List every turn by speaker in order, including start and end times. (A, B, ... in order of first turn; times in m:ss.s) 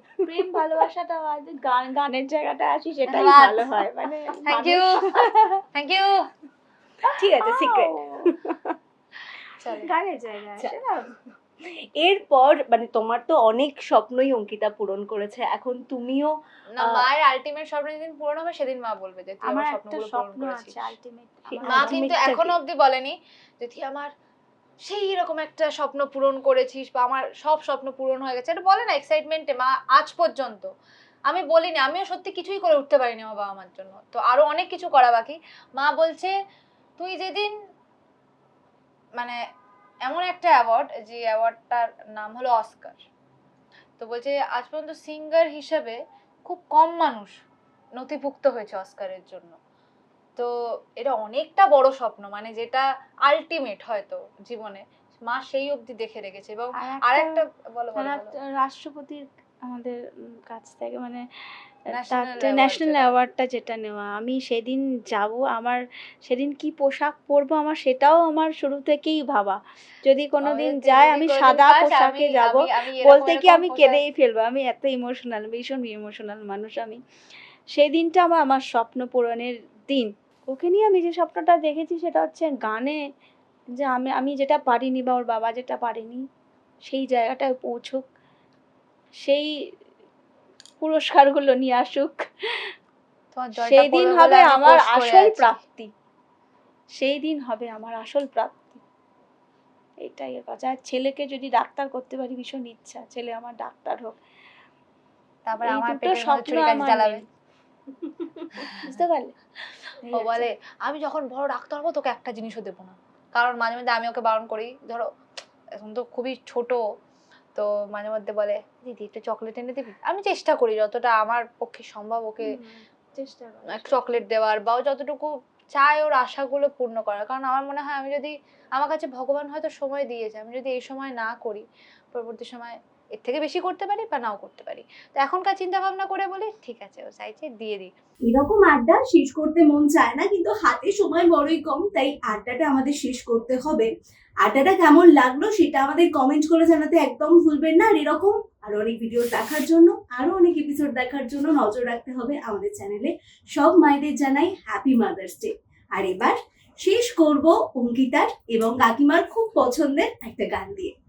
0:00.2-0:05.4 A
0:03.1-0:03.8 B
0:04.5-0:06.3 B
0:07.1-0:08.8 C
0:07.2-0:08.4 A
0:09.6-0:09.9 B
0:09.7-0:11.2 A
0:11.6-0:17.1 C
0:16.8-0:20.8 B
0:19.4-0:22.2 A
0:21.5-0:22.6 C
0:21.7-0:24.1 B
0:24.8-0:30.7 B
0:31.3-0:36.3 B
0:37.0-0:37.5 B
0:40.0-0:43.0 B
0:44.0-0:47.4 B
0:48.0-0:49.6 B
0:50.4-0:58.3 B
0:56.8-0:57.4 A
0:58.0-1:01.2 A
1:01.9-1:03.2 B
1:02.0-1:17.0 A
1:10.4-1:14.0 B
1:17.7-1:23.0 A
1:23.8-1:26.3 A
1:26.9-1:28.1 A
1:29.2-1:29.5 A
1:30.8-1:32.7 A
1:33.3-1:35.6 B
1:33.6-1:35.9 A
1:37.0-1:38.8 A
1:40.0-1:44.2 A
1:45.5-1:47.2 B
1:45.6-1:47.2 A
1:48.6-1:49.0 B
1:48.8-1:49.4 A
1:50.0-1:50.5 A
1:50.2-1:55.1 B
1:55.8-1:56.8 B
1:57.6-2:02.6 B
2:02.4-2:04.0 A
2:03.7-2:17.9 B
2:18.2-2:23.9 C
2:24.4-2:40.9 C